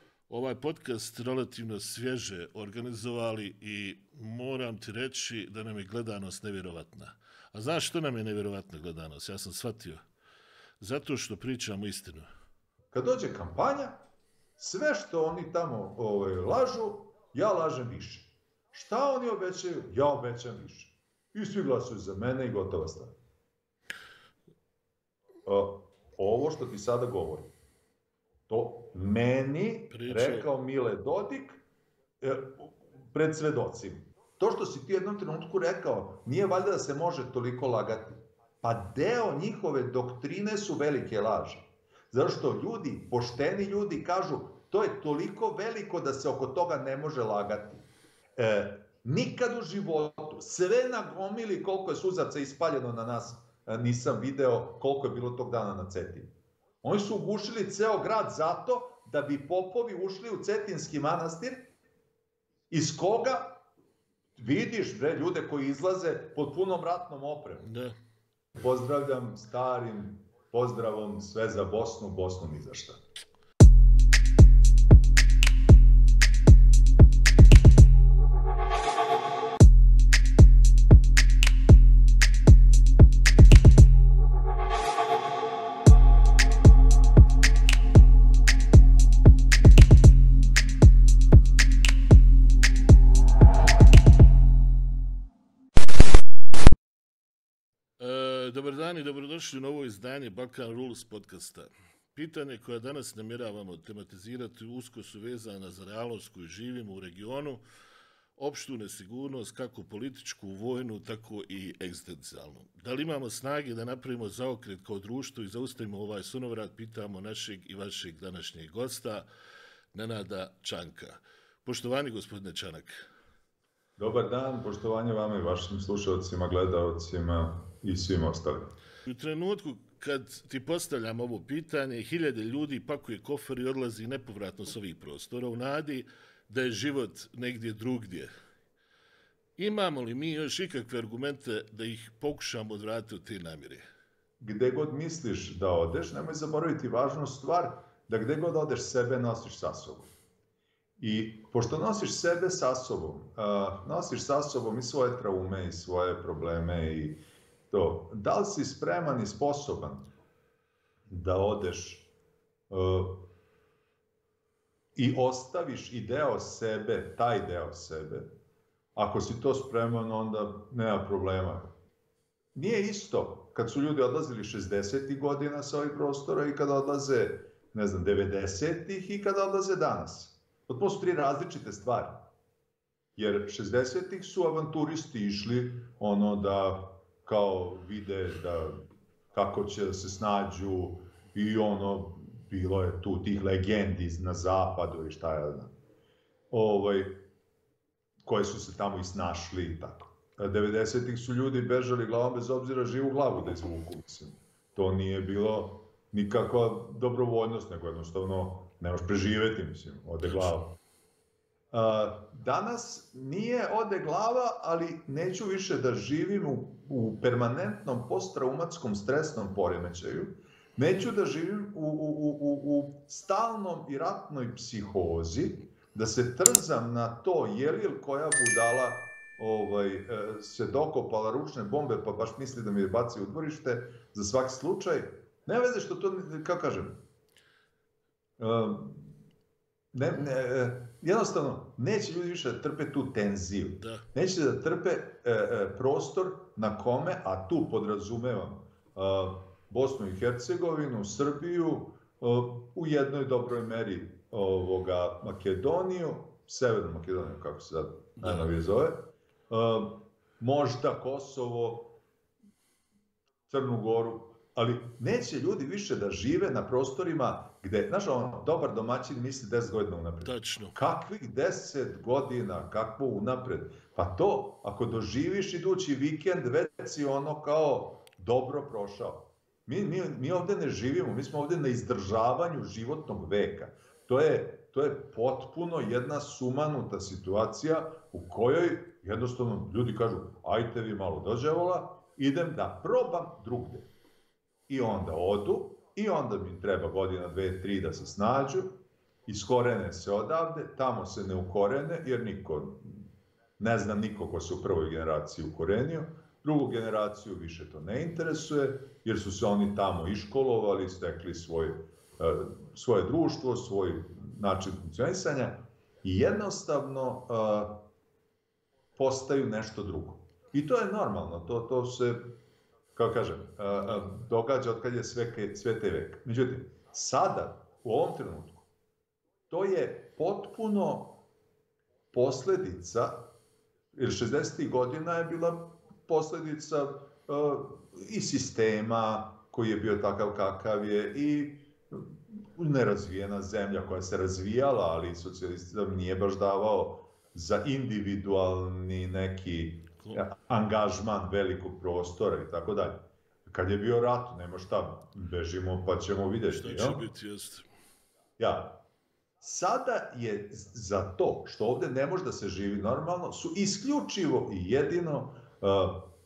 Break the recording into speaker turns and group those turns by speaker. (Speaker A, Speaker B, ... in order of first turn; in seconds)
Speaker A: 0.3-10.0, 10.8-12.3, 29.9-30.5, 67.6-68.0, 98.0-107.6, 108.4-119.3, 119.9-123.0, 129.1-138.3, 139.6-143.9, 210.2-210.5, 258.2-258.5, 270.2-270.8, 356.5-357.7
Speaker B: 12.9-14.0, 14.6-23.1, 25.4-27.5, 28.5-31.6, 32.2-47.9, 48.4-56.3, 56.8-61.7, 62.7-63.6, 64.4-67.7, 68.5-73.0, 124.0-128.7, 144.4-150.1, 151.0-157.2, 157.7-160.1, 161.1-162.1, 162.7-163.2, 165.0-168.3, 169.0-171.7, 172.6-182.2, 183.2-188.8, 189.3-195.7, 196.5-197.2, 198.3-210.8, 211.7-237.0, 238.4-239.1, 239.9-262.0, 263.5-293.9, 294.7-298.7, 299.3-303.1, 303.6-317.8, 319.0-322.3, 323.0-328.6, 329.5-331.2, 332.1-333.3, 333.9-357.0, 358.4-358.8, 359.4-366.1